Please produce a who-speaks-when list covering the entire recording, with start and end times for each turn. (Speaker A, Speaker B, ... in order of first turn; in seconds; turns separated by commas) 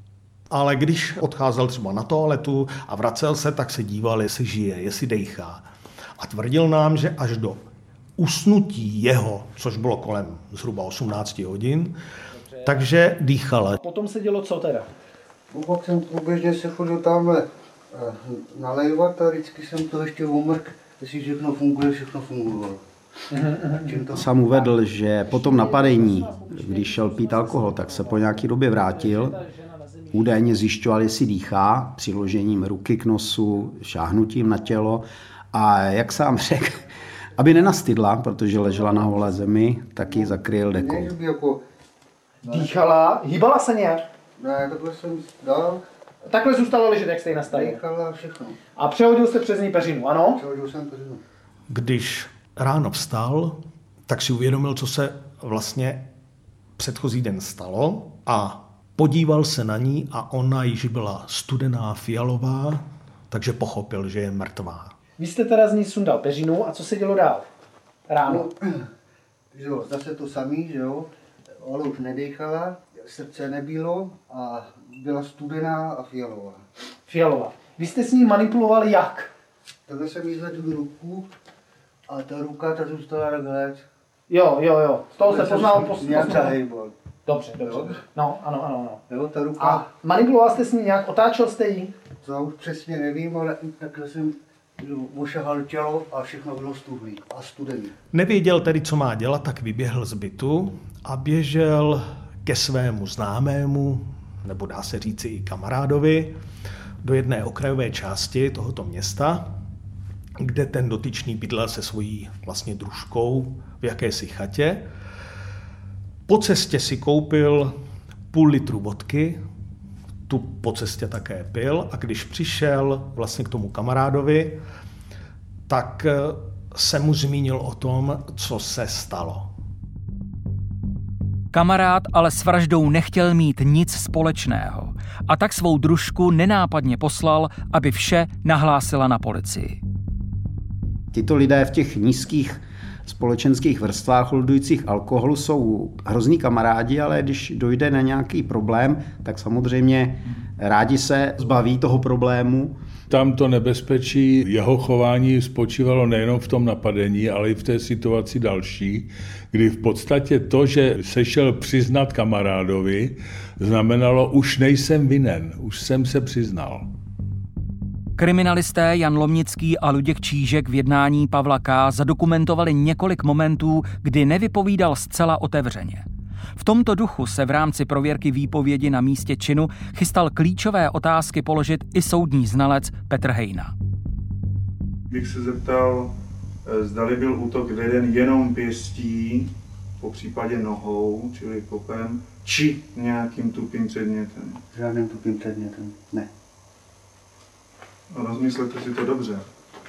Speaker A: 0.5-5.6, Speaker A: 6.2-7.7, Speaker A: 8.2-11.9, Speaker A: 12.6-13.8, Speaker B: 13.8-14.9, Speaker C: 15.5-22.8, Speaker B: 23.3-24.0, Speaker C: 23.7-24.8, Speaker D: 24.1-29.4, Speaker B: 25.3-30.2, Speaker D: 30.1-36.8, Speaker D: 37.4-41.1, Speaker C: 40.0-41.6, Speaker C: 42.4-42.7, Speaker B: 42.5-44.1, Speaker C: 44.4-45.8, Speaker B: 46.2-47.8, Speaker C: 47.4-48.6, Speaker B: 48.7-50.4, Speaker C: 50.3-51.2, Speaker A: 51.7-56.1, Speaker A: 56.8-65.0, Speaker B: 65.2-67.4, Speaker B: 68.1-68.5, Speaker C: 68.2-68.9, Speaker C: 69.5-76.7, Speaker B: 77.1-79.3, Speaker C: 79.9-81.3, Speaker C: 82.1-83.8, Speaker B: 84.3-86.6, Speaker C: 85.2-86.9, Speaker B: 87.2-89.0, Speaker C: 87.6-88.0, Speaker C: 89.1-89.9, Speaker B: 89.6-91.9, Speaker C: 92.2-97.9, Speaker A: 98.1-106.4, Speaker A: 107.0-109.5, Speaker A: 110.4-114.8, Speaker A: 116.3-117.7, Speaker A: 118.3-119.4, Speaker A: 120.3-124.6, Speaker A: 125.7-129.5, Speaker E: 131.5-139.8, Speaker D: 141.1-152.8, Speaker F: 153.1-166.9, Speaker E: 168.2-176.0, Speaker E: 176.6-183.7, Speaker G: 185.1-186.1, Speaker G: 186.6-194.6, Speaker C: 194.7-196.3, Speaker G: 198.1-199.4